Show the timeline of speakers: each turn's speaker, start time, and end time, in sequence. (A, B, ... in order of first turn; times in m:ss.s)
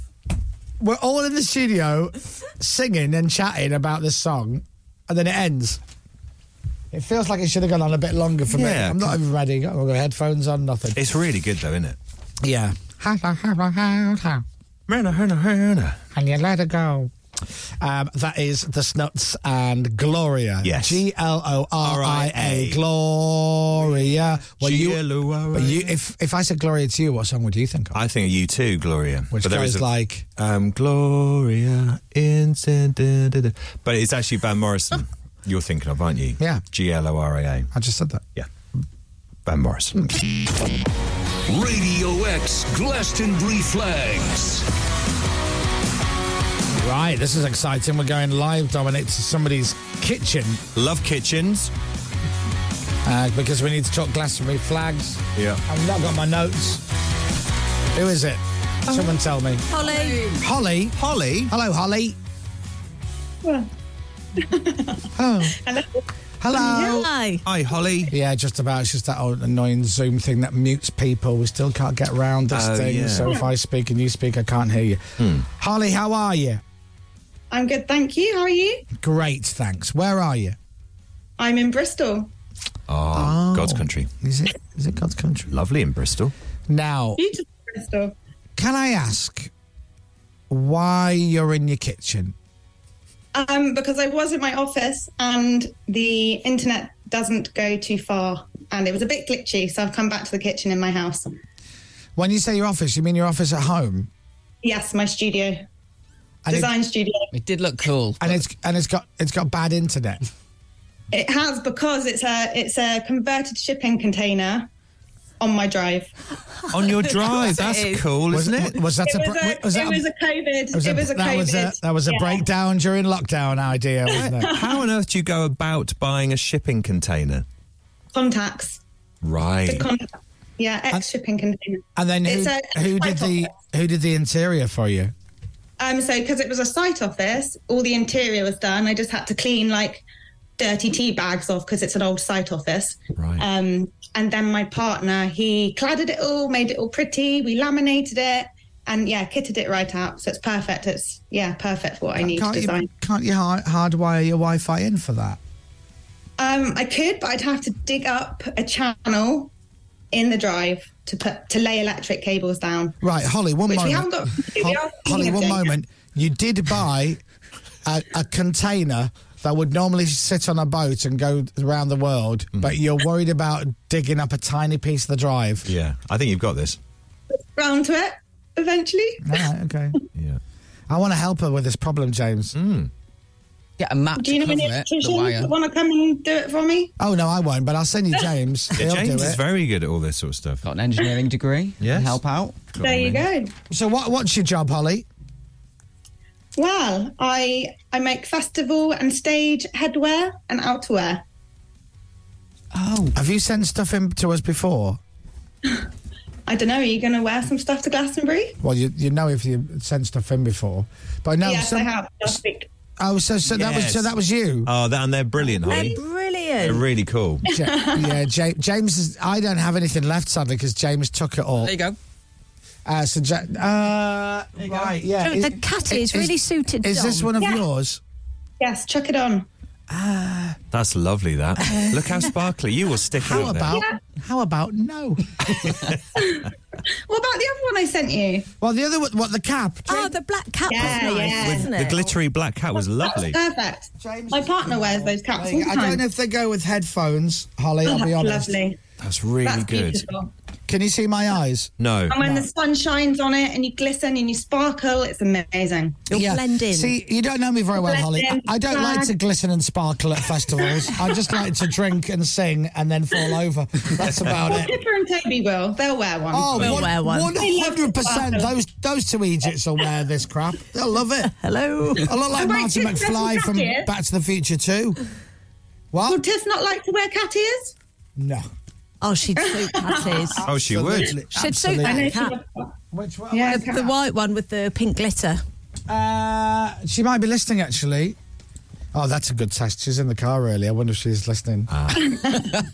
0:00.8-0:05.8 A
0:06.9-0:11.0 A
0:08.5-0:09.2 B
0:10.9-0:12.0 B
0:12.4-0:14.4 A
0:14.9-0:16.0 B
0:16.1-0:17.1 A
0:17.8-0:28.0 A
0:20.6-0:21.0 B
0:21.8-0:22.8 B
0:24.5-0:25.9 B
0:27.9-0:29.8 B
0:29.3-0:30.3 A
0:30.4-0:37.7 B
0:37.7-0:38.2 A
0:39.4-0:40.0 B
0:41.5-0:44.6 C
0:46.8-0:50.6 A
0:50.7-0:51.7 B
0:53.0-0:56.8 A
0:55.4-0:55.6 B
0:57.9-0:59.6 A
0:59.7-1:00.3 D
0:59.8-1:00.4 E
1:00.4-1:02.2 A
1:01.0-1:01.5 B
1:03.4-1:03.7 F
1:04.4-1:07.0 F
1:05.2-1:05.6 A
1:06.4-1:07.1 A
1:06.6-1:07.4 D
1:07.4-1:08.1 B
1:08.1-1:16.6 A
1:12.5-1:13.4 B
1:15.2-1:15.4 B
1:17.5-1:18.9 F
1:19.0-1:20.6 A
1:21.4-1:22.3 F
1:22.9-1:24.1 B
1:23.1-1:25.5 A
1:25.5-1:26.3 B
1:26.7-1:27.2 A
1:27.2-1:28.1 F
1:28.6-1:29.5 A
1:30.5-1:32.3 A
1:33.3-1:41.3 F
1:42.2-1:44.1 A
1:44.6-1:45.6 F
1:46.4-1:46.7 A
1:46.5-1:47.3 F
1:47.3-1:48.4 E
1:48.2-1:50.2 A
1:51.1-1:54.7 F
1:55.4-1:56.1 F
1:56.7-1:58.8 B
1:57.1-1:58.0 D
1:58.3-2:00.0 A
1:59.0-2:02.4 F
2:00.7-2:04.6 A
2:04.1-2:07.4 B
2:04.1-2:04.8 F
2:08.1-2:08.8 F
2:09.2-2:09.8 B
2:09.6-2:13.5 F
2:12.0-2:15.1 A
2:15.8-2:20.0 F
2:20.6-2:32.9 F
2:23.2-2:23.4 B
2:32.2-2:35.4 A
2:36.4-2:39.5 F
2:40.1-2:43.0 F
2:43.0-2:47.2 A
2:43.7-2:45.7 F
2:47.8-2:55.7 A
2:55.6-2:56.8 B
2:57.3-2:59.4 F
2:59.2-3:00.0 A
3:00.9-3:02.5 A
3:02.5-3:02.9 B
3:03.8-3:05.5 E
3:04.2-3:06.9 F
3:07.0-3:09.4 A
3:08.7-3:10.6 B
3:10.6-3:12.6 E
3:11.8-3:12.2 B
3:12.7-3:13.2 B
3:12.8-3:13.5 F
3:13.7-3:15.0 A
3:16.6-3:21.2 F
3:22.7-3:23.1 E
3:23.1-3:25.0 A
3:26.5-3:28.6 F
3:28.6-3:32.4 A
3:31.4-3:32.7 F
3:33.0-3:34.7 A
3:33.5-3:34.1 B
3:34.6-3:36.0 B
3:35.6-3:36.8 D
3:36.6-3:37.4 B
3:37.4-3:38.2 F
3:37.4-3:41.8 A
3:41.6-3:42.0 E
3:42.8-3:48.0 A
3:44.6-3:44.9 E
3:45.2-3:47.3 D
3:47.4-3:47.6 F
3:48.6-3:49.5 F
3:49.9-3:50.6 A
3:50.7-3:53.8 B
3:51.6-3:52.2 A
3:53.2-3:55.4 A
3:53.7-3:54.0 F
3:55.4-3:56.0 B
3:56.1-3:58.5 F
3:58.6-4:00.1 A
3:59.9-4:02.1 D
4:00.7-4:01.7 F
4:00.9-4:01.2 A
4:01.4-4:03.4 B
4:03.0-4:06.0 F
4:04.0-4:08.5 A
4:07.8-4:08.8 F
4:09.0-4:10.0 B
4:09.4-4:10.3 F
4:10.7-4:12.5 A
4:11.8-4:12.2 B
4:12.1-4:16.0 F
4:16.1-4:16.9 D
4:16.1-4:24.8 A
4:17.7-4:19.1 F
4:20.6-4:21.4 F
4:24.4-4:26.6 F
4:26.3-4:31.3 A
4:26.6-4:27.4 D
4:27.3-4:28.5 F
4:31.4-4:32.1 D
4:32.0-4:35.0 A
4:32.3-4:33.9 F
4:35.9-4:36.2 A
4:36.0-4:37.7 F
4:38.2-4:38.5 A
4:39.0-4:40.4 D
4:39.4-4:40.4 F
4:40.2-4:42.2 A
4:40.4-4:41.2 B
4:41.3-4:42.4 D
4:41.8-4:42.7 F
4:42.9-4:43.8 A
4:43.3-4:43.9 F
4:43.4-4:45.4 D
4:45.9-4:48.2 A
4:48.9-4:52.0 A
4:51.7-4:52.1 B
4:52.0-4:52.3 F
4:52.3-4:52.6 E